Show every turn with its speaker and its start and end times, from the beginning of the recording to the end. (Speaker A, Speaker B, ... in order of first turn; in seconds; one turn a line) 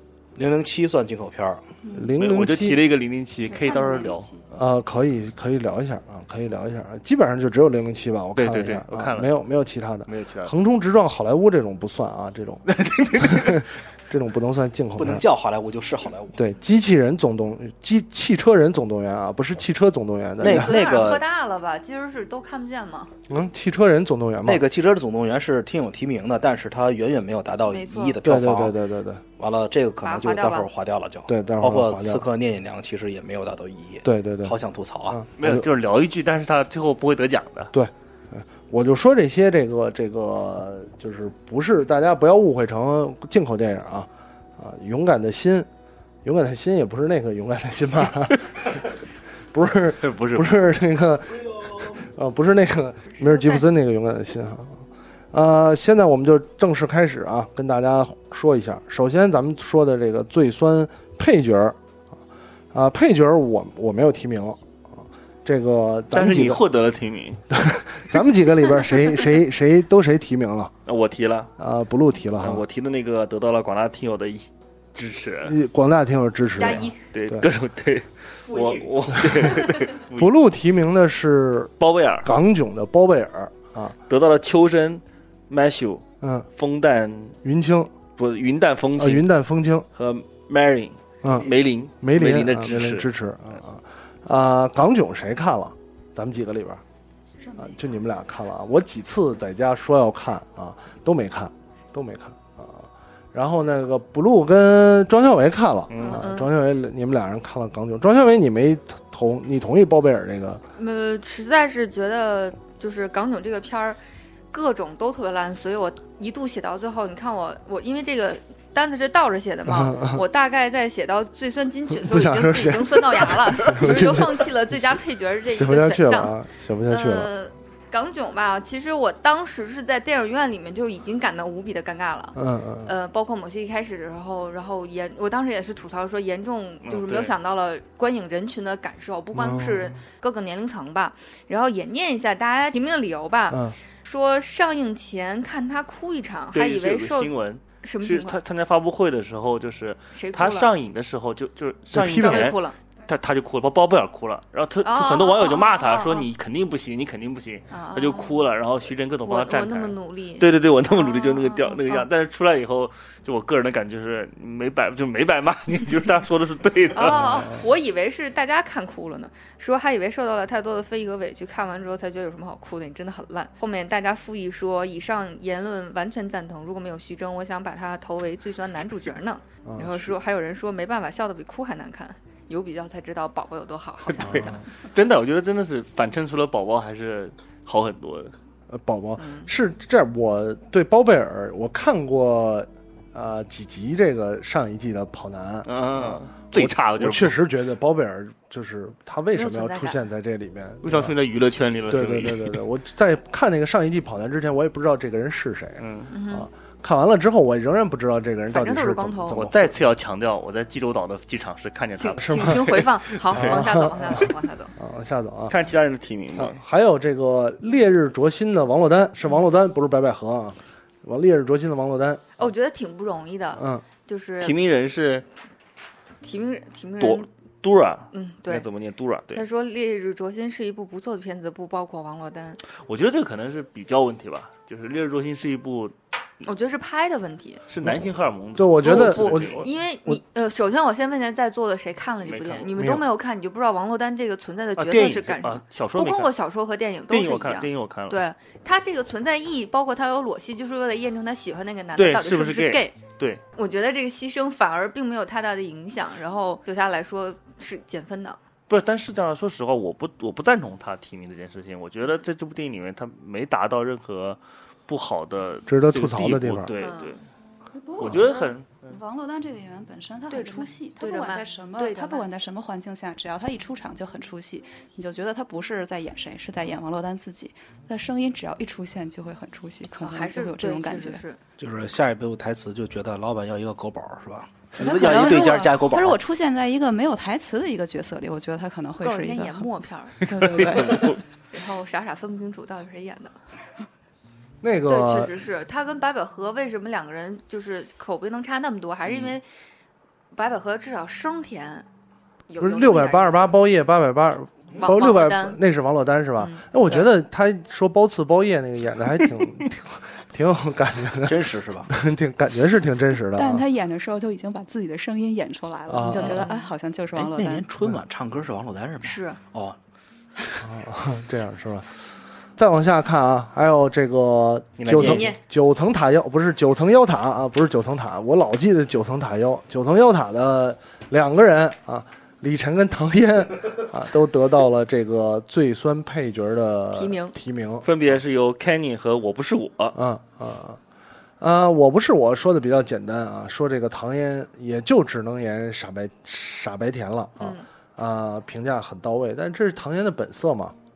Speaker A: 0.3-1.6
Speaker B: 1.8-2.1
Speaker C: 1.9-2.9
Speaker D: 2.2-4.3
Speaker B: 3.5-4.5
Speaker C: 4.5-15.2
Speaker D: 8.3-9.3
Speaker D: 10.1-10.5
Speaker D: 12.7-13.6
Speaker A: 15.0-16.4
Speaker C: 16.3-20.9
Speaker A: 20.4-21.2
Speaker E: 20.4-23.1
Speaker C: 23.3-24.7
Speaker A: 24.4-28.8
Speaker E: 27.7-28.2
Speaker C: 28.2-29.2
Speaker A: 29.4-35.2
Speaker E: 30.0-30.7
Speaker C: 31.3-32.2
Speaker C: 34.0-34.5
Speaker C: 35.1-35.7
Speaker D: 35.4-37.7
Speaker C: 37.7-45.7
Speaker C: 46.2-48.9
Speaker C: 49.5-54.8
Speaker D: 50.0-50.6
Speaker E: 53.1-53.6
Speaker C: 55.3-61.8
Speaker C: 62.7-64.6
Speaker C: 65.4-66.6
Speaker D: 66.1-67.4
Speaker C: 67.5-70.7
Speaker D: 70.8-71.5
Speaker C: 71.6-72.6
Speaker D: 72.4-75.6
Speaker C: 75.4-77.5
Speaker E: 76.6-77.0
Speaker D: 77.1-80.3
Speaker C: 79.1-79.6
Speaker C: 80.1-84.0
Speaker D: 81.8-82.3
Speaker D: 84.1-86.0
Speaker C: 86.2-86.5
Speaker D: 86.5-87.4
Speaker C: 87.4-87.9
Speaker D: 88.2-89.3
Speaker C: 89.0-89.8
Speaker D: 89.9-93.1
Speaker C: 91.2-96.8
Speaker B: 97.4-97.8
Speaker C: 97.6-110.6
Speaker D: 105.9-106.2
Speaker E: 106.0-106.5
Speaker E: 110.8-114.0
Speaker E: 114.5-126.3
Speaker C: 119.7-120.2
Speaker C: 121.9-127.3
Speaker E: 126.9-147.3
Speaker C: 132.3-132.9
Speaker D: 136.8-137.3
Speaker C: 139.3-140.0
Speaker C: 143.5-143.8
Speaker D: 146.5-167.4
Speaker E: 147.8-148.4
Speaker E: 150.1-150.7
Speaker C: 151.9-152.5
Speaker E: 152.1-152.8
Speaker E: 154.8-156.3
Speaker E: 157.7-158.4
Speaker E: 159.2-162.1
Speaker E: 166.9-184.6
Speaker C: 167.1-167.5
Speaker C: 179.6-180.1
Speaker D: 184.1-188.3
Speaker C: 184.2-184.6
Speaker C: 188.7-201.1
Speaker E: 189.2-189.5
Speaker D: 195.7-197.4
Speaker E: 199.3-200.0
Speaker D: 200.8-202.6
Speaker C: 201.9-209.8
Speaker D: 205.8-206.1
Speaker E: 206.1-206.5
Speaker E: 208.5-209.4
Speaker D: 209.3-213.7
Speaker E: 212.0-214.7
Speaker C: 212.2-215.6
Speaker D: 215.5-216.6
Speaker C: 216.3-222.2
Speaker E: 222.4-224.6
Speaker C: 223.6-223.8
Speaker D: 224.4-225.2
Speaker E: 226.2-227.3
Speaker D: 227.0-229.4
Speaker E: 228.1-228.7
Speaker E: 229.3-232.6
Speaker D: 232.7-235.9
Speaker E: 236.4-237.6
Speaker D: 237.7-239.7
Speaker C: 237.8-240.2
Speaker E: 238.8-253.0
Speaker D: 242.2-242.7
Speaker C: 242.8-243.0
Speaker D: 244.8-246.3
Speaker D: 247.1-248.2
Speaker D: 251.9-253.4
Speaker E: 253.5-258.4
Speaker D: 258.7-267.2
Speaker C: 265.7-266.7
Speaker E: 266.8-267.2
Speaker B: 267.7-281.2
Speaker D: 268.0-268.9
Speaker E: 270.3-272.3
Speaker E: 280.0-281.4
Speaker A: 281.6-286.2
Speaker B: 284.8-291.2
Speaker E: 289.0-293.3
Speaker D: 290.6-291.2
Speaker C: 294.6-295.3
Speaker E: 294.9-299.4
Speaker E: 300.3-301.9
Speaker E: 302.5-303.6
Speaker C: 302.6-313.6
Speaker E: 304.8-305.6
Speaker E: 306.4-307.1
Speaker A: 311.2-311.9
Speaker B: 313.3-317.7
Speaker C: 315.9-316.4
Speaker E: 316.1-316.7
Speaker A: 317.1-319.8
Speaker E: 319.0-319.4
Speaker C: 320.6-321.9
Speaker C: 322.6-337.9
Speaker D: 324.8-325.2
Speaker E: 324.9-325.4
Speaker E: 336.9-337.4
Speaker D: 337.8-340.0
Speaker C: 339.9-340.8
Speaker C: 341.4-350.7
Speaker E: 347.4-347.6